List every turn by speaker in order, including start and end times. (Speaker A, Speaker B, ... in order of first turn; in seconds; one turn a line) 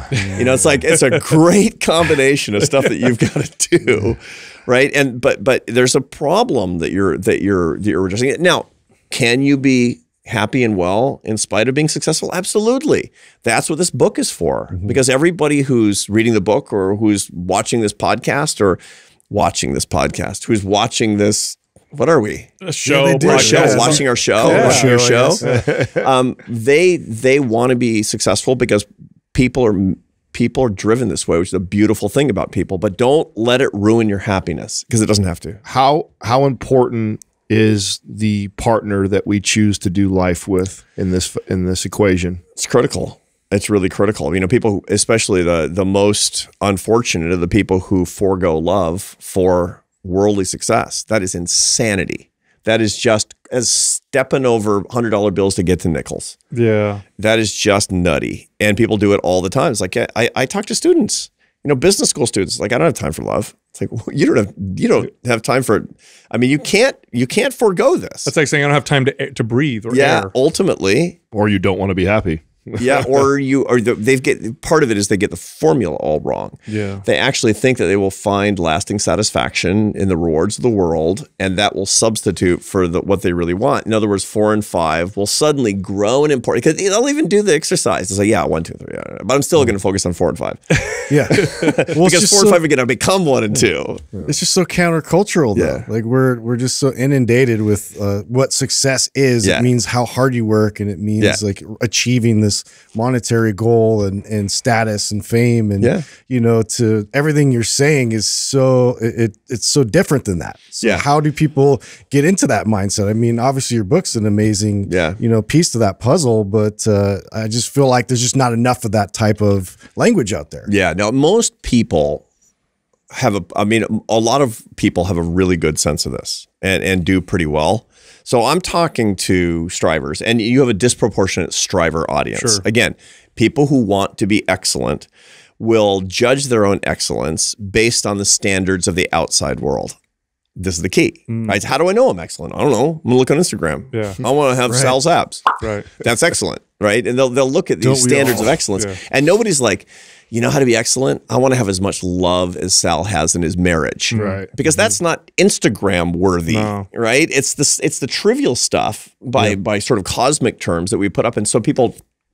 Speaker A: 0.2-22.5
Speaker B: 22.6-24.9
Speaker C: 22.9-25.7
Speaker D: 23.2-26.1
Speaker A: 23.2-35.6
Speaker D: 35.6-42.4
Speaker A: 42.6-56.4
Speaker B: 56.5-57.0
Speaker A: 57.2-68.3
Speaker B: 68.3-70.3
Speaker A: 69.9-71.2
Speaker D: 71.3-73.3
Speaker A: 72.8-94.3
Speaker B: 76.7-77.0
Speaker B: 90.7-91.6
Speaker C: 91.1-92.6
Speaker C: 94.2-120.7
Speaker A: 95.5-95.8
Speaker A: 99.4-99.7
Speaker A: 105.8-106.1
Speaker A: 110.8-111.1
Speaker A: 114.9-115.2
Speaker A: 120.7-122.2
Speaker A: 123.1-135.1
Speaker B: 132.3-132.6
Speaker A: 135.6-140.0
Speaker A: 140.6-162.0
Speaker B: 141.3-141.6
Speaker B: 143.9-144.2
Speaker C: 144.7-145.0
Speaker B: 145.6-145.9
Speaker C: 147.8-148.6
Speaker B: 154.1-154.4
Speaker D: 154.2-154.4
Speaker C: 154.2-154.8
Speaker B: 156.5-156.9